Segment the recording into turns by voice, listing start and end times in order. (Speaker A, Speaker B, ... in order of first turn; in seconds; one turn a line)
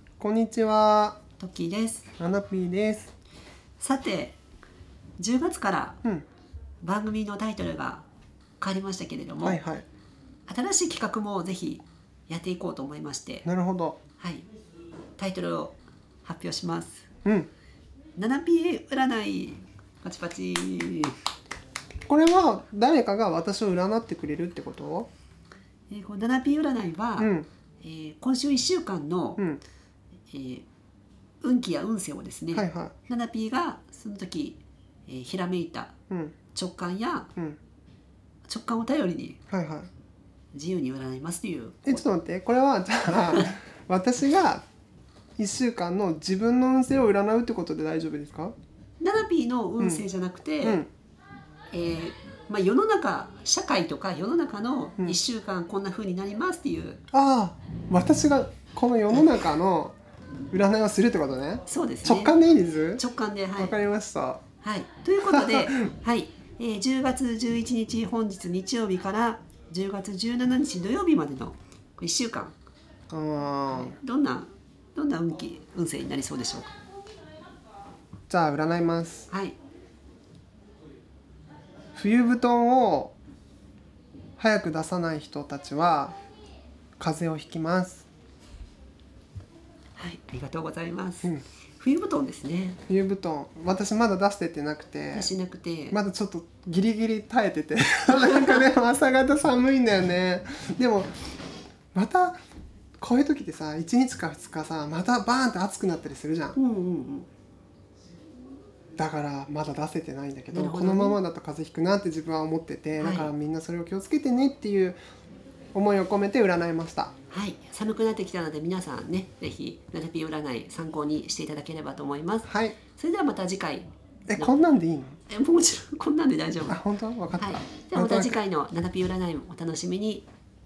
Speaker A: 0.2-1.2
Speaker B: 1.4-2.1
Speaker A: 2.2-3.1
Speaker B: 3.8-4.4
Speaker B: 5.2-6.0
Speaker B: 6.8-8.1
Speaker B: 8.6-9.6
Speaker A: 9.4-9.9
Speaker B: 10.5-13.5
Speaker A: 13.5-14.0
Speaker B: 14.2-14.5
Speaker B: 15.2-17.1
Speaker A: 17.2-17.5
Speaker B: 18.2-21.2
Speaker A: 22.1-25.1
Speaker B: 25.9-27.3
Speaker A: 27.2-27.5
Speaker B: 27.8-29.4
Speaker B: 30.3-30.7
Speaker B: 31.4-35.9
Speaker A: 32.5-33.0
Speaker A: 36.1-36.4
Speaker B: 36.5-37.3
Speaker B: 38.5-39.4
Speaker A: 39.5-39.9
Speaker B: 40.5-42.0
Speaker A: 41.9-44.6
Speaker A: 45.4-48.5
Speaker B: 49.0-50.8
Speaker A: 50.6-50.9
Speaker B: 51.7-57.0
Speaker A: 57.1-60.0
Speaker B: 59.1-59.4
Speaker A: 60.5-63.0
Speaker B: 61.7-62.3
Speaker B: 63.0-63.8
Speaker A: 63.5-64.4
Speaker B: 64.6-72.5
Speaker A: 65.3-65.9
Speaker A: 73.1-74.0
Speaker B: 73.7-76.7
Speaker A: 78.3-79.3
Speaker B: 79.3-79.6
Speaker A: 81.9-83.1
Speaker A: 84.4-86.2
Speaker A: 87.0-88.0
Speaker B: 90.0-92.8
Speaker A: 92.9-95.3
Speaker B: 95.1-96.0
Speaker A: 95.9-101.1
Speaker B: 98.1-98.6
Speaker A: 101.9-102.4
Speaker A: 103.0-106.6
Speaker B: 106.5-107.3
Speaker A: 109.0-115.0
Speaker B: 110.5-111.2
Speaker B: 113.0-113.3
Speaker A: 115.7-117.1
Speaker B: 117.3-124.5
Speaker A: 122.4-122.8
Speaker A: 124.3-125.2
Speaker B: 125.3-126.8
Speaker A: 126.7-128.4
Speaker B: 127.4-130.3